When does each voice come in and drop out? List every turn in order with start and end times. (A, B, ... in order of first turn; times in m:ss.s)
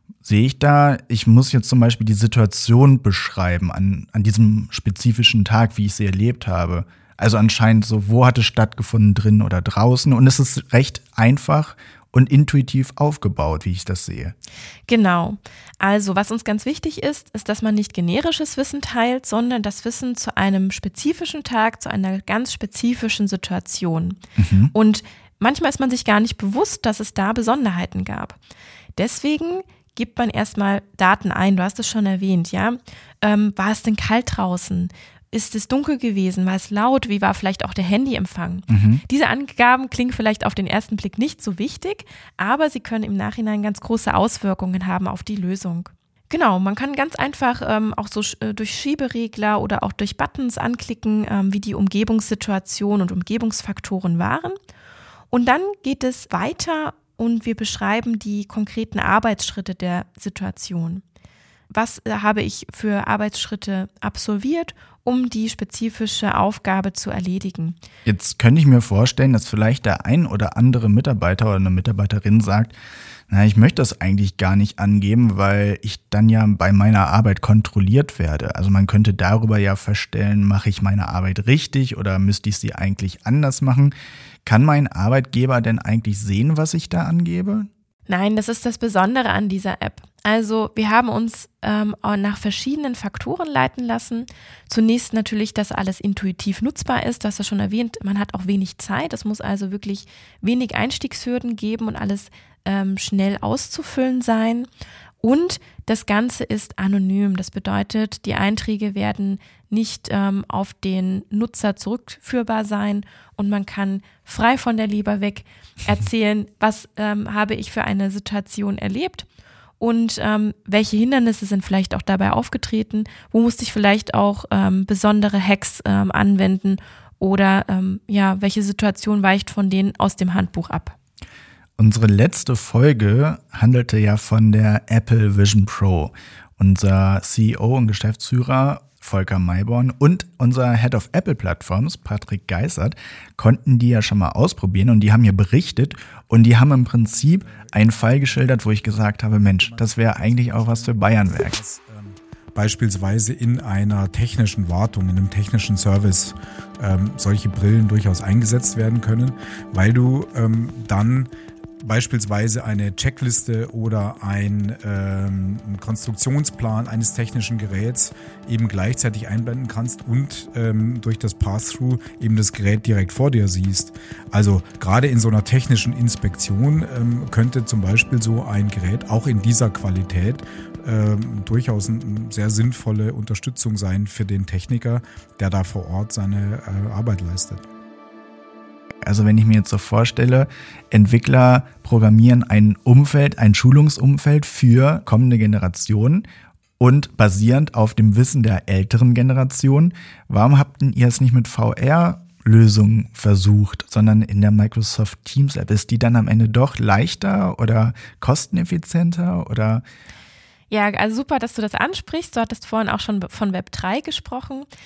0:00.2-0:14.4 A
0:14.9-0:24.2 B
0:24.4-0:24.7 A
0:24.7-0:28.4 B
0:29.0-0:54.6 B
0:38.7-0:39.0 A
0:55.3-1:01.0 B
1:01.7-1:07.8 B
1:08.0-1:12.8 A
1:13.3-1:27.7 A
1:28.1-1:44.7 B
1:45.2-1:59.2 B
1:59.8-2:11.0 B
2:11.8-2:31.6 A
2:27.1-2:28.5 C
2:29.6-3:07.6 C
3:09.0-3:16.2 A
3:16.8-3:29.8 A
3:30.7-3:34.7 B